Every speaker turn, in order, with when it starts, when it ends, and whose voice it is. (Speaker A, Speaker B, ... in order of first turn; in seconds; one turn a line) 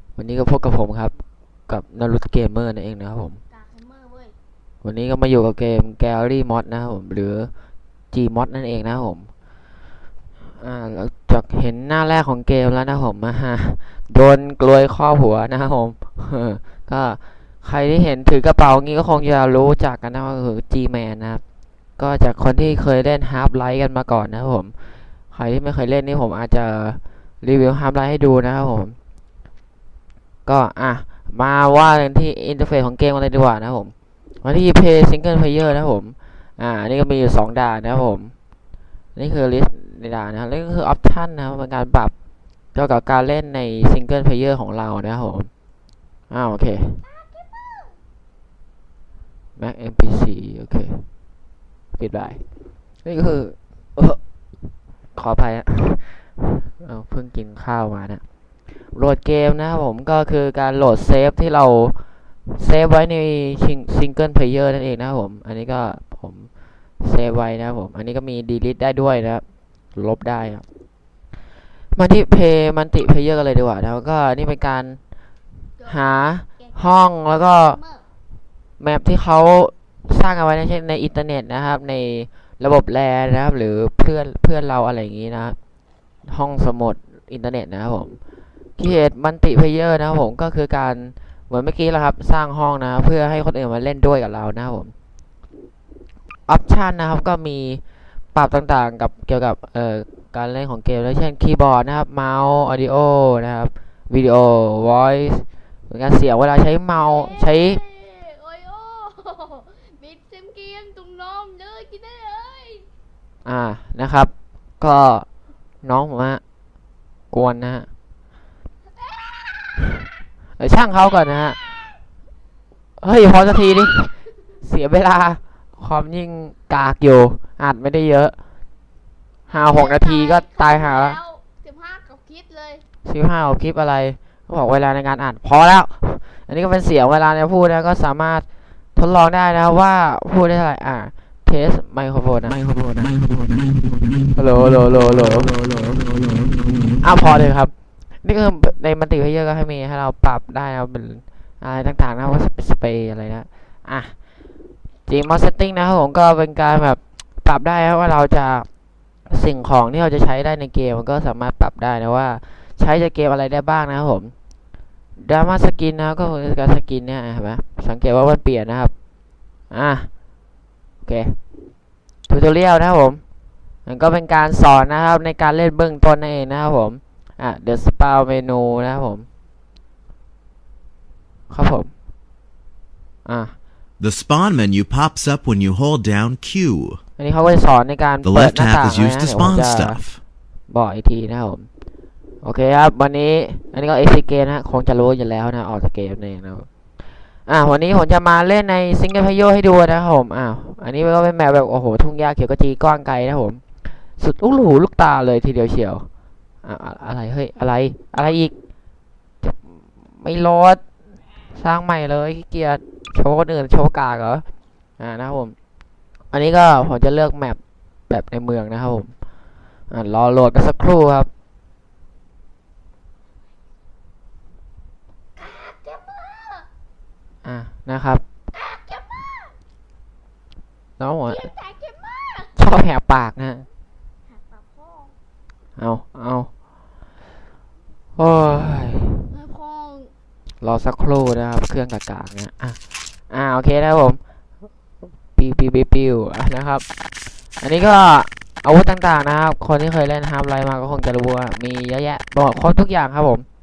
Speaker A: 0.2-1.1
Speaker A: 1.7-3.4
Speaker B: 3.5-4.3
Speaker A: 4.8-7.5
Speaker A: 8.1-9.3
Speaker A: 10.6-21.4
Speaker A: 22.0-24.7
Speaker A: 25.3-29.0
Speaker A: 30.5-38.3
Speaker A: 39.1-42.1
Speaker A: 42.7-45.5
Speaker A: 46.3-47.0
Speaker B: 47.0-48.0
Speaker A: 49.6-51.1
Speaker A: 52.0-52.4
Speaker A: 53.0-54.2
Speaker A: 55.1-58.2
Speaker A: 58.9-66.5
Speaker A: 67.0-69.4
Speaker A: 70.0-70.6
Speaker A: 71.9-75.0
Speaker B: 75.8-78.0
Speaker A: 75.8-77.8
Speaker A: 78.8-85.6
Speaker A: 86.3-88.2
Speaker A: 88.8-94.9
Speaker A: 96.5-97.8
Speaker A: 98.3-107.8
Speaker B: 107.0-112.9
Speaker A: 113.5-115.3
Speaker A: 115.8-116.4
Speaker A: 117.3-117.9
Speaker A: 120.6-121.6
Speaker A: 123.0-128.4
Speaker B: 129.5-132.8
Speaker A: 129.5-131.2
Speaker A: 133.1-143.1
Speaker A: 144.3-145.6
Speaker A: 147.0-147.7
Speaker A: 148.2-154.1
Speaker A: 155.1-158.7
Speaker A: 159.3-164.3
Speaker A: 165.2-168.9
Speaker A: 169.7-170.1
Speaker A: 171.0-171.4
Speaker A: 172.3-173.2
Speaker A: 173.9-179.3
Speaker A: 181.5-181.9
Speaker A: 183.2-183.5
Speaker C: 184.0-187.0
Speaker A: 187.2-190.0
Speaker C: 188.2-190.2
Speaker A: 190.7-191.7
Speaker A: 192.4-196.7
Speaker A: 197.5-203.6
Speaker A: 204.2-206.1
Speaker A: 206.6-208.5
Speaker A: 209.4-210.8
Speaker A: 211.6-214.4
Speaker A: 215.0-215.6
Speaker A: 216.3-219.1
Speaker A: 219.9-221.3
Speaker B: 225.4-226.7
Speaker A: 227.4-228.2
Speaker B: 228.5-229.6
Speaker A: 231.0-231.5
Speaker B: 231.2-232.5
Speaker A: 232.6-233.7
Speaker B: 234.3-235.2
Speaker A: 235.8-236.5
Speaker A: 238.2-239.3
Speaker B: 239.3-240.1
Speaker A: 240.6-242.8
Speaker A: 243.3-244.2
Speaker A: 245.4-246.8
Speaker A: 247.6-253.5